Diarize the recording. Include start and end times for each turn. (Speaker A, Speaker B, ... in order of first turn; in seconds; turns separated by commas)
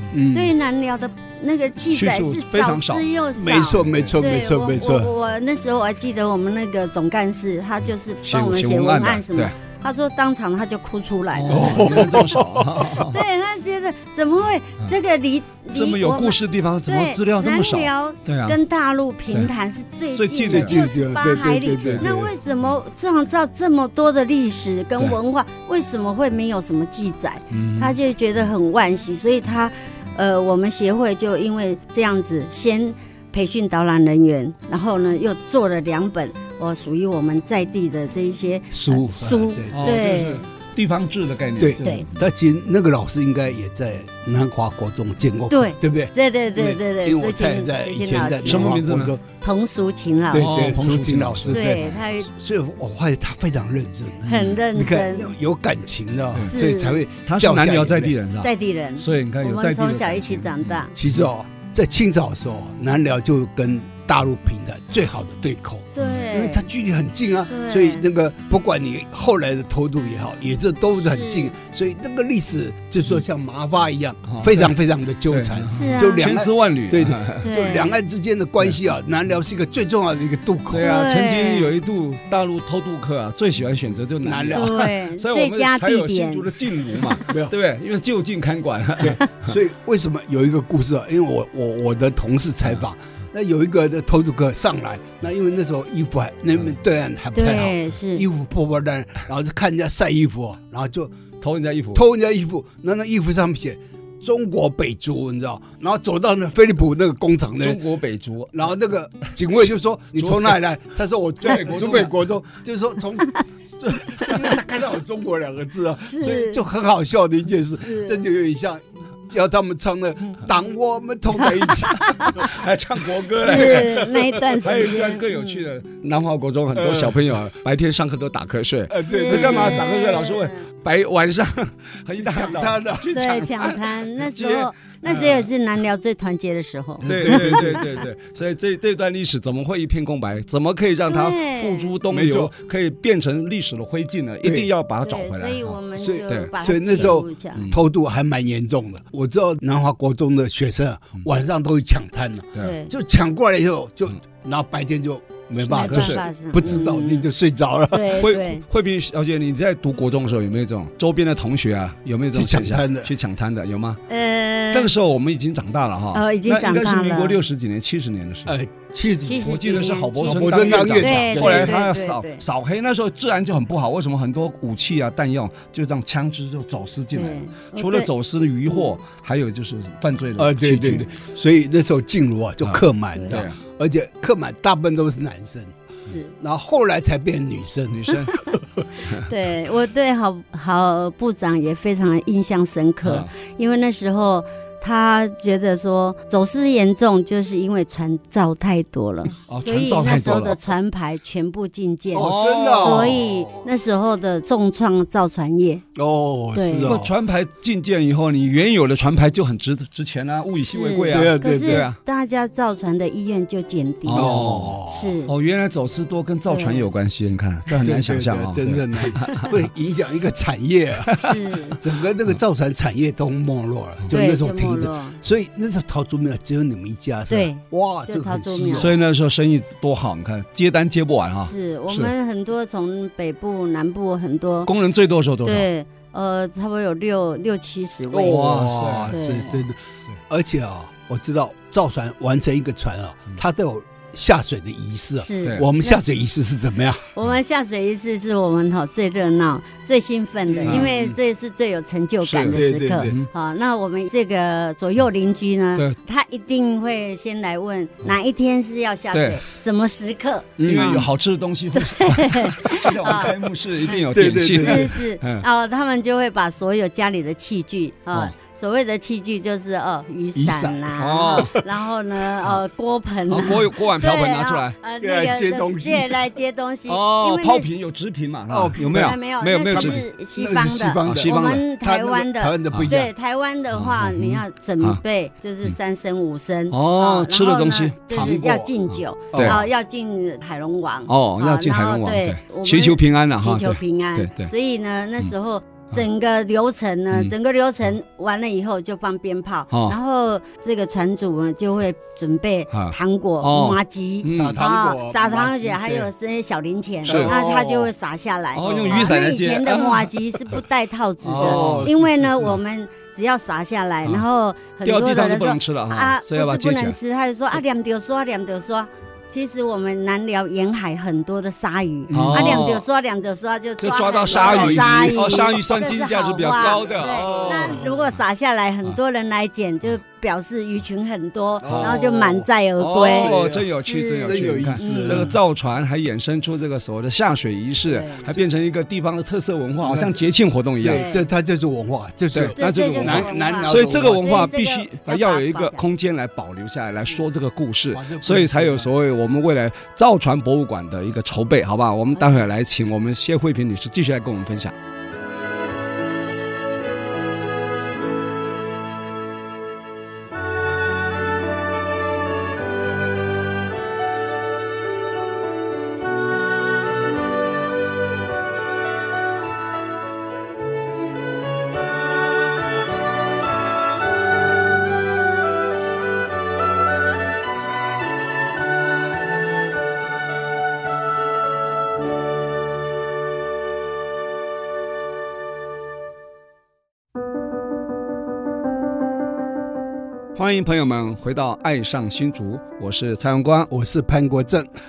Speaker A: 0.1-0.5, Speaker B: 0.3-11.8, Speaker C: 1.8-3.0, Speaker A: 3.4-5.1, Speaker C: 3.8-4.1, Speaker C: 8.2-9.5, Speaker C: 11.3-13.2, Speaker A: 11.5-13.1, Speaker B: 13.0-40.5, Speaker C: 15.7-18.6, Speaker C: 20.1-20.8, Speaker A: 20.5-22.3, Speaker C: 21.8-22.1, Speaker C: 27.5-28.0, Speaker A: 38.7-40.0, Speaker C: 39.7-42.3, Speaker A: 41.6-49.2, Speaker B: 45.5-48.8, Speaker C: 48.5-49.1, Speaker B: 49.4-50.6, Speaker A: 50.3-58.2, Speaker C: 50.3-52.0, Speaker B: 51.5-52.3, Speaker B: 54.3-55.4, Speaker C: 54.3-54.6, Speaker B: 56.4-57.0, Speaker C: 57.2-61.2, Speaker B: 58.4-60.9, Speaker A: 61.0-81.0, Speaker B: 66.0-66.7, Speaker B: 67.5-68.0, Speaker B: 70.9-71.5, Speaker C: 74.3-74.7, Speaker C: 75.3-77.5, Speaker B: 75.7-76.2, Speaker B: 77.4-78.0, Speaker C: 80.7-89.5, Speaker B: 80.8-81.7, Speaker A: 84.2-84.8, Speaker B: 84.5-87.2, Speaker A: 87.3-87.5, Speaker A: 89.0-101.2, Speaker B: 97.3-98.3, Speaker C: 101.4-102.0, Speaker A: 101.9-107.8, Speaker C: 107.6-108.6, Speaker A: 108.5-122.5, Speaker C: 110.2-110.5, Speaker C: 111.4-112.2, Speaker B: 116.0-116.6, Speaker B: 117.8-118.3, Speaker B: 121.8-122.5, Speaker C: 122.3-135.5, Speaker B: 123.3-125.6, Speaker A: 123.5-124.6, Speaker A: 126.8-127.2, Speaker A: 128.9-130.0, Speaker B: 129.0-130.6, Speaker A: 132.2-133.1, Speaker B: 133.1-137.8, Speaker A: 137.0-137.8, Speaker C: 137.1-147.8, Speaker B: 141.1-141.9, Speaker A: 142.1-142.5, Speaker A: 144.4-144.7, Speaker B: 145.0-147.7, Speaker A: 146.0-158.2, Speaker B: 152.6-152.9, Speaker B: 155.6-157.3, Speaker C: 155.7-156.2, Speaker B: 157.9-158.6, Speaker C: 158.2-164.0, Speaker A: 162.3-163.1, Speaker B: 164.1-164.9, Speaker C: 164.7-168.5, Speaker B: 166.1-167.4, Speaker A: 168.5-171.8, Speaker B: 169.2-172.4, Speaker C: 169.4-181.1, Speaker B: 177.1-178.1, Speaker A: 180.4-185.8, Speaker C: 182.6-183.6, Speaker B: 183.1-183.4, Speaker B: 186.1-186.3, Speaker A: 186.4-188.6, Speaker C: 187.9-188.3, Speaker C: 189.1-189.3, Speaker B: 189.1-205.8, Speaker C: 193.0-193.3, Speaker C: 199.5-200.6, Speaker A: 202.1-203.7, Speaker C: 202.2-203.2, Speaker A: 205.9-207.1, Speaker B: 206.5-207.0, Speaker C: 206.8-212.0, Speaker B: 210.6-214.4, Speaker A: 211.1-211.9, Speaker C: 214.1-219.6, Speaker A: 214.1-215.2, Speaker B: 214.9-215.3, Speaker B: 216.5-216.9, Speaker A: 217.7-221.2, Speaker B: 221.2-221.8, Speaker A: 221.8-228.9, Speaker B: 224.1-225.2, Speaker B: 227.3-228.9, Speaker C: 228.8-232.1, Speaker B: 231.4-234.7, Speaker C: 234.7-235.7, Speaker B: 235.4-239.5, Speaker A: 238.1-247.1, Speaker C: 238.2-239.6, Speaker B: 245.2-246.1, Speaker B: 247.1-261.1, Speaker A: 250.5-250.9, Speaker C: 250.6-251.2, Speaker C: 252.2-253.3, Speaker A: 252.5-253.2, Speaker C: 259.1-259.4, Speaker A: 260.6-261.1, Speaker C: 260.6-265.4, Speaker B: 261.7-277.7, Speaker A: 264.1-265.0, Speaker A: 270.4-271.6, Speaker C: 271.0-271.6, Speaker C: 273.3-274.8, Speaker A: 275.0-276.2, Speaker C: 276.9-280.0, Speaker A: 278.5-279.1, Speaker B: 278.8-335.3, Speaker A: 279.7-283.1, Speaker C: 281.0-281.6, Speaker C: 283.7-285.0, Speaker C: 286.7-288.6, Speaker A: 288.1-288.7, Speaker A: 289.3-289.7, Speaker C: 289.3-289.6, Speaker C: 291.1-294.5, Speaker C: 299.7-300.0, Speaker C: 302.7-304.6, Speaker A: 304.3-306.1, Speaker A: 307.1-307.9, Speaker C: 307.1-307.4, Speaker C: 308.6-310.1, Speaker A: 308.6-309.1, Speaker C: 311.2-311.9, Speaker A: 311.3-312.6, Speaker C: 314.8-317.0, Speaker C: 322.1-322.8, Speaker A: 322.1-322.4, Speaker C: 323.8-327.9, Speaker A: 324.3-325.9, Speaker A: 326.6-327.9, Speaker A: 331.6-332.5, Speaker C: 331.7-332.0, Speaker C: 332.8-341.1, Speaker A: 333.0-333.7, Speaker A: 334.2-335.4, Speaker B: 337.9-338.3, Speaker A: 339.8-340.2, Speaker A: 340.8-344.5, Speaker B: 340.9-341.3, Speaker C: 342.3-354.8, Speaker B: 342.5-345.8, Speaker B: 346.9-347.2, Speaker A: 347.9-348.9, Speaker B: 352.2-352.4, Speaker C: 390.4-393.7, Speaker A: 393.7-394.7